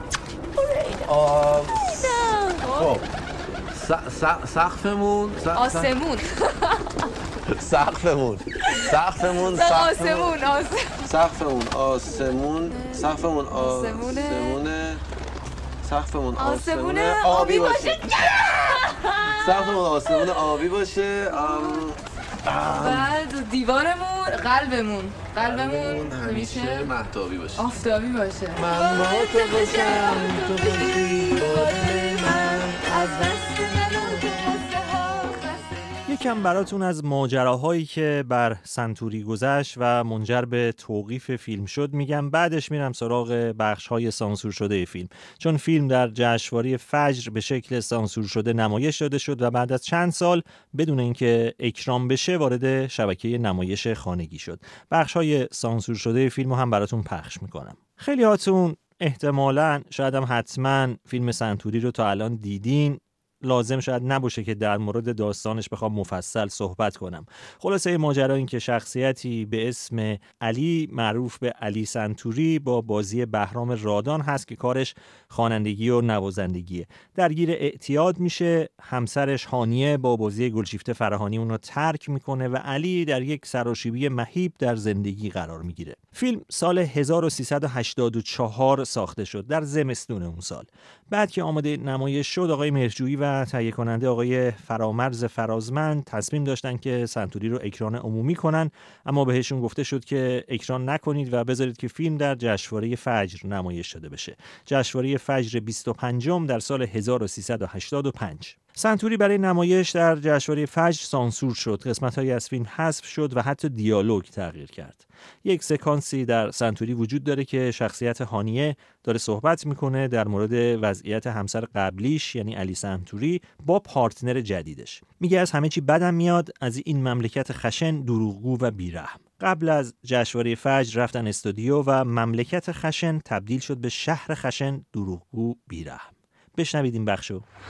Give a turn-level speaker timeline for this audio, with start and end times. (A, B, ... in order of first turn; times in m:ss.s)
0:00.6-0:01.0 A
0:01.1-0:02.1 B
0:01.9-0:02.9 A
0:02.7-0:03.0 B
0:03.7-0:05.9 B
0:05.5-0:06.8 A
0:07.6-0:10.3 B
0:08.6-0:11.0 A
0:11.0-0:15.0 B
0:12.7-0:14.6 A
0:15.8-0:18.1 B
0:16.4-0:20.4 A
0:19.4-0:23.1 B
0:21.3-0:21.8 A
0:22.7-0:26.9 A
0:25.4-0:27.6 B
0:27.6-0:35.8 A
0:28.6-0:32.8 B
0:36.1-2:17.4 C